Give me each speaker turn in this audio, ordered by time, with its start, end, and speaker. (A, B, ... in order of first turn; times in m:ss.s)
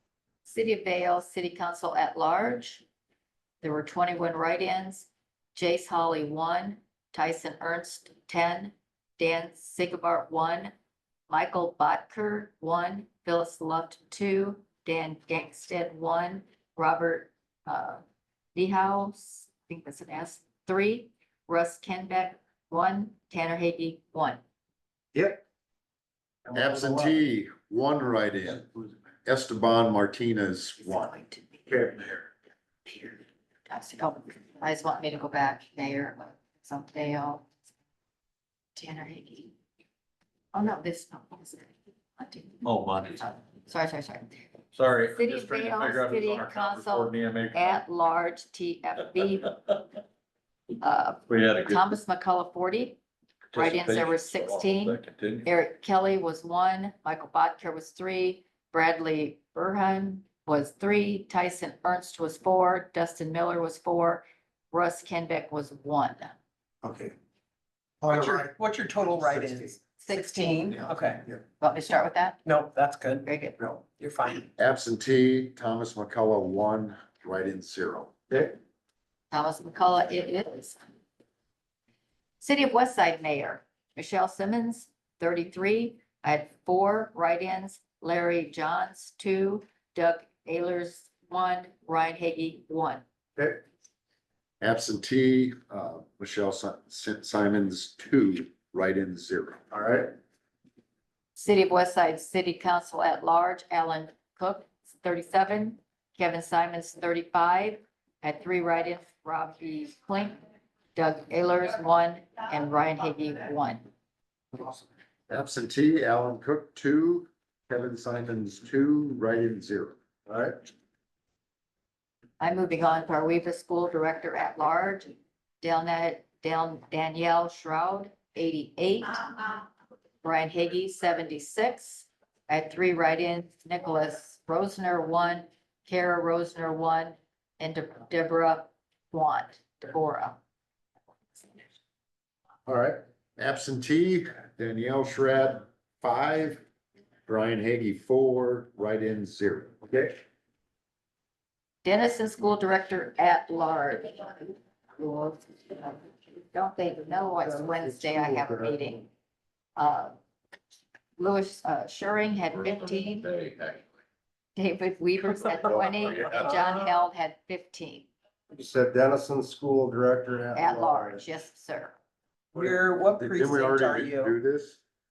0:00.4-0:02.8 A
0:03.6-0:10.7 A
0:11.3-0:18.0 A
0:18.5-0:24.4 A
0:25.1-0:25.4 B
0:26.4-0:27.2 B
0:26.5-0:28.7 C
0:29.2-0:31.2 C
0:31.0-0:31.5 A
0:31.7-0:32.1 B
0:32.9-0:37.4 A
0:38.7-0:39.5 A
0:40.5-0:44.4 A
0:42.6-0:43.2 D
0:44.7-0:47.8 D
0:45.1-0:49.6 A
0:50.8-0:53.0 A
0:51.3-0:51.8 D
0:53.5-0:55.5 D
0:53.5-1:06.3 A
1:06.8-1:07.1 B
1:08.0-1:09.8 B
1:08.0-1:11.2 E
1:10.0-1:11.0 A
1:11.6-1:12.4 A
1:12.4-1:13.3 E
1:13.2-1:13.6 A
1:13.8-1:14.5 E
1:14.6-1:18.1 C
1:19.3-1:20.8 A
1:22.4-1:33.0 A
1:33.4-1:33.6 B
1:34.6-1:39.6 C
1:39.7-1:40.1 B
1:41.3-1:50.4 A
1:50.9-1:53.8 A
1:55.3-2:00.0 C
2:00.3-2:00.6 B
2:02.4-2:09.6 A
2:10.2-2:20.4 A
2:22.7-2:23.0 B
2:23.4-2:26.6 C
2:27.2-2:29.8 C
2:29.9-2:30.1 B
2:31.8-2:39.1 A
2:37.4-2:38.8 B
2:39.8-2:40.1 A
2:41.2-2:43.4 A
2:43.3-2:43.8 D
2:44.6-2:48.1 A
2:46.1-2:46.5 D
2:48.5-2:51.2 B
2:50.5-2:51.9 A
2:52.5-2:54.3 E
2:53.2-2:54.8 C